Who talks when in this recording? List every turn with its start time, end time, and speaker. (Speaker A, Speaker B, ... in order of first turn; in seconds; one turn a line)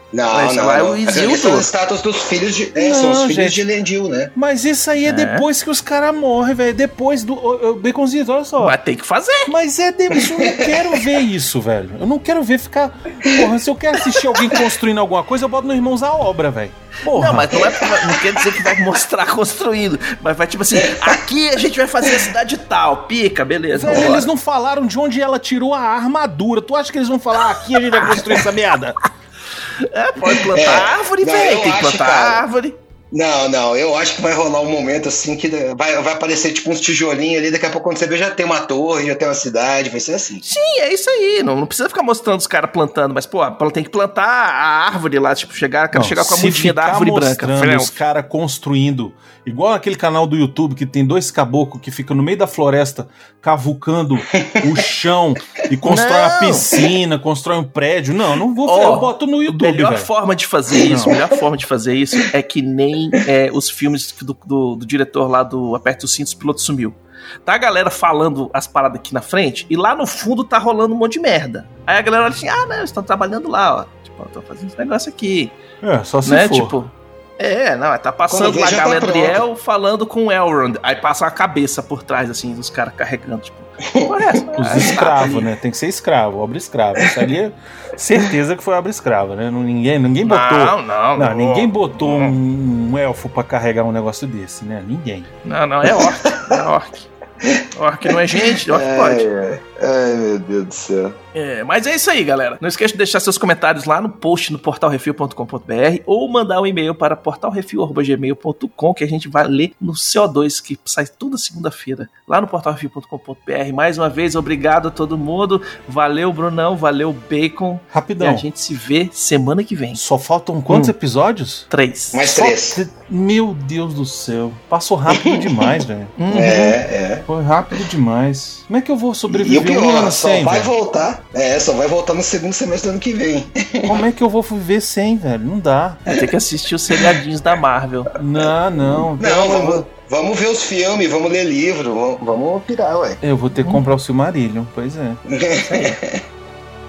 Speaker A: 0.1-4.3
Speaker B: 0.3-1.7
Speaker C: 2.8-3.6
Speaker C: 4.4-8.8
Speaker B: 5.0-5.5
Speaker B: 8.6-9.5
Speaker C: 9.5-17.6
Speaker A: 10.2-10.8
Speaker B: 17.1-24.3
Speaker A: 17.6-18.6
Speaker A: 20.8-21.2
Speaker C: 23.7-29.0
Speaker B: 28.1-28.4
Speaker B: 29.8-32.8
Speaker A: 30.5-32.4
Speaker A: 33.1-40.5
Speaker B: 40.4-48.0
Speaker C: 45.9-60.1
Speaker A: 54.4-54.6
Speaker B: 55.8-56.7
Speaker B: 58.7-75.6
Speaker C: 60.7-61.2
Speaker C: 75.8-76.8
Speaker B: 76.2-85.5
Speaker A: 78.3-79.4
Speaker C: 84.6-95.3
Speaker B: 90.2-92.3
Speaker B: 95.4-97.1
Speaker A: 95.8-96.6
Speaker A: 97.4-101.2
Speaker B: 97.7-99.3
Speaker B: 101.3-120.0
Speaker C: 117.9-118.5
Speaker C: 120.0-121.7
Speaker B: 120.7-120.9
Speaker B: 121.7-122.3
Speaker A: 122.1-122.8
Speaker C: 122.3-126.2
Speaker A: 125.1-127.3
Speaker B: 126.2-126.8
Speaker C: 127.3-130.7
Speaker A: 129.3-134.0
Speaker C: 133.8-136.0
Speaker B: 136.1-138.1
Speaker C: 138.2-139.9
Speaker A: 139.2-143.2
Speaker C: 143.2-145.2
Speaker A: 145.3-146.2